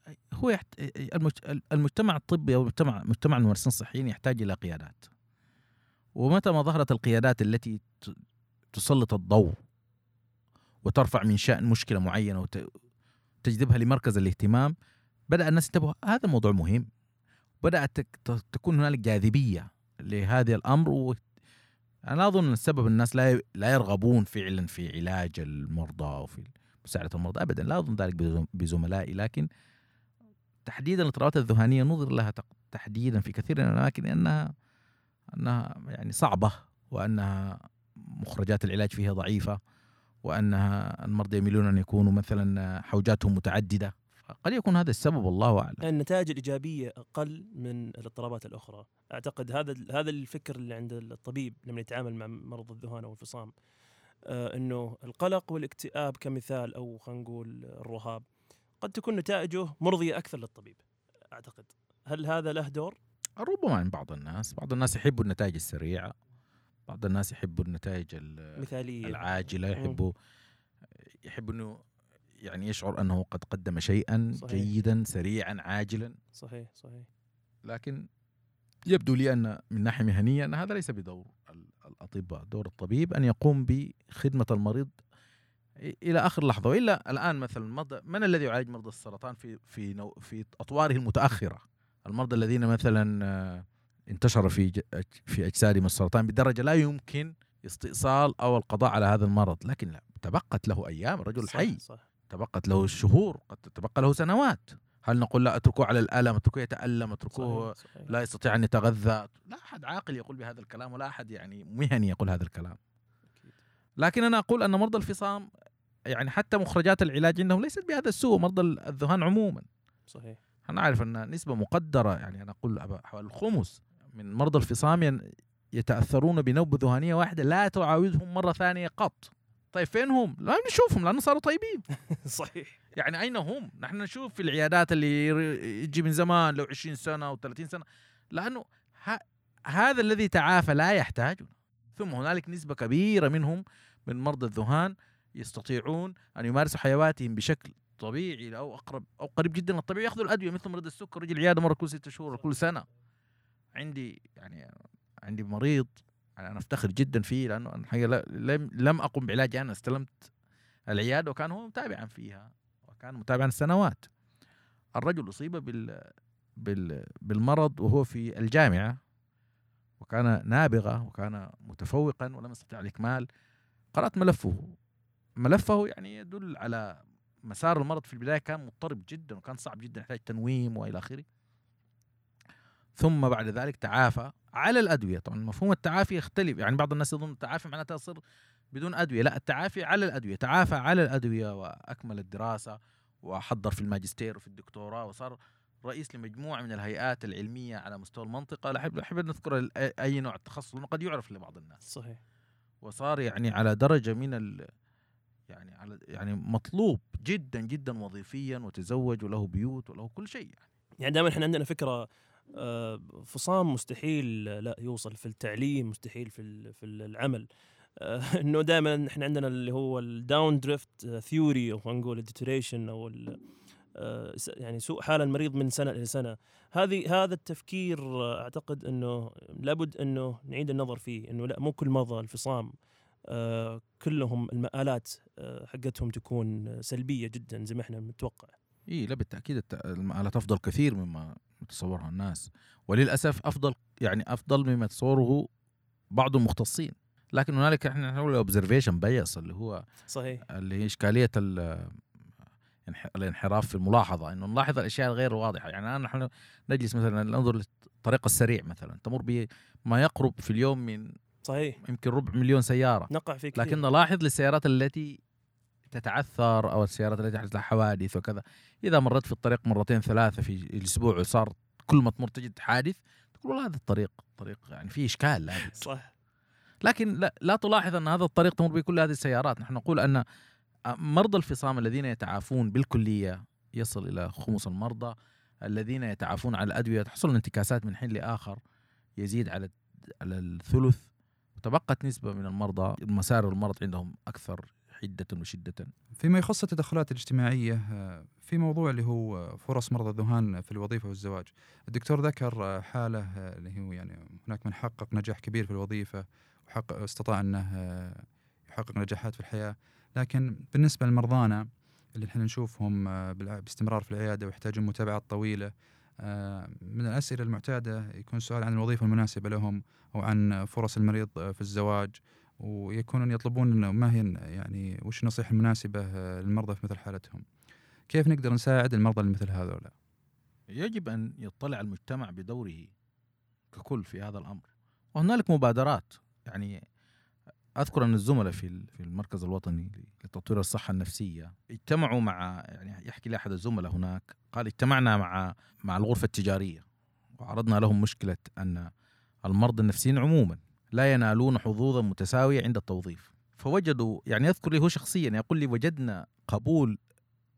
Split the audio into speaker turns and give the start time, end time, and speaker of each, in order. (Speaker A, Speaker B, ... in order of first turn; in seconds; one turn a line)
Speaker A: 0.3-5.1
Speaker A: 6.2-8.2
Speaker A: 8.7-9.6
Speaker A: 10.8-12.7
Speaker A: 13.4-14.7
Speaker A: 15.3-16.9
Speaker A: 17.6-21.2
Speaker A: 22.1-29.5
Speaker A: 30.6-34.5
Speaker A: 35.4-37.6
Speaker A: 38.2-39.6
Speaker A: 40.2-45.8
Speaker B: 45.8-53.5
Speaker B: 54.2-58.2
Speaker B: 58.8-62.9
Speaker A: 63.4-66.1
Speaker A: 66.9-70.1
Speaker B: 68.6-69.2
Speaker B: 69.8-70.0
Speaker A: 71.2-71.8
Speaker A: 72.4-76.2
Speaker B: 74.4-74.7
Speaker B: 76.3-77.1
Speaker A: 77.6-78.1
Speaker A: 78.9-84.9
Speaker A: 85.8-101.8
Speaker B: 101.3-102.0
Speaker A: 102.3-112.8
Speaker B: 107.3-108.1
Speaker B: 113.3-113.5
Speaker A: 114.0-115.5
Speaker A: 116.1-119.7
Speaker B: 120.1-120.4
Speaker A: 120.7-125.2
Speaker A: 125.8-131.8
Speaker B: 132.1-132.8
Speaker A: 132.9-152.8
Speaker A: 153.8-154.6
Speaker A: 155.2-160.3
Speaker A: 160.9-164.1
Speaker A: 165.0-169.0
Speaker A: 170.0-173.3
Speaker A: 173.9-174.7
Speaker A: 175.4-181.2
Speaker A: 183.0-188.2
Speaker A: 188.7-201.8
Speaker B: 201.8-202.2
Speaker A: 202.8-204.7
Speaker A: 205.5-210.7
Speaker B: 211.0-223.4
Speaker B: 223.9-232.7
Speaker B: 233.3-238.5
Speaker A: 238.9-245.4
Speaker A: 246.1-249.8
Speaker B: 250.1-250.4
Speaker A: 250.5-252.0
Speaker A: 252.8-261.0
Speaker B: 261.4-261.8
Speaker A: 261.8-265.2
Speaker B: 263.1-263.8
Speaker A: 265.9-275.8
Speaker B: 275.6-276.1
Speaker A: 276.8-280.2
Speaker A: 280.9-288.6
Speaker A: 289.2-291.1
Speaker A: 291.6-295.9
Speaker C: 296.2-327.4
Speaker C: 328.1-329.9
Speaker A: 330.7-332.9
Speaker A: 333.7-336.8
Speaker A: 337.8-346.8
Speaker A: 347.4-348.9
Speaker A: 349.4-356.9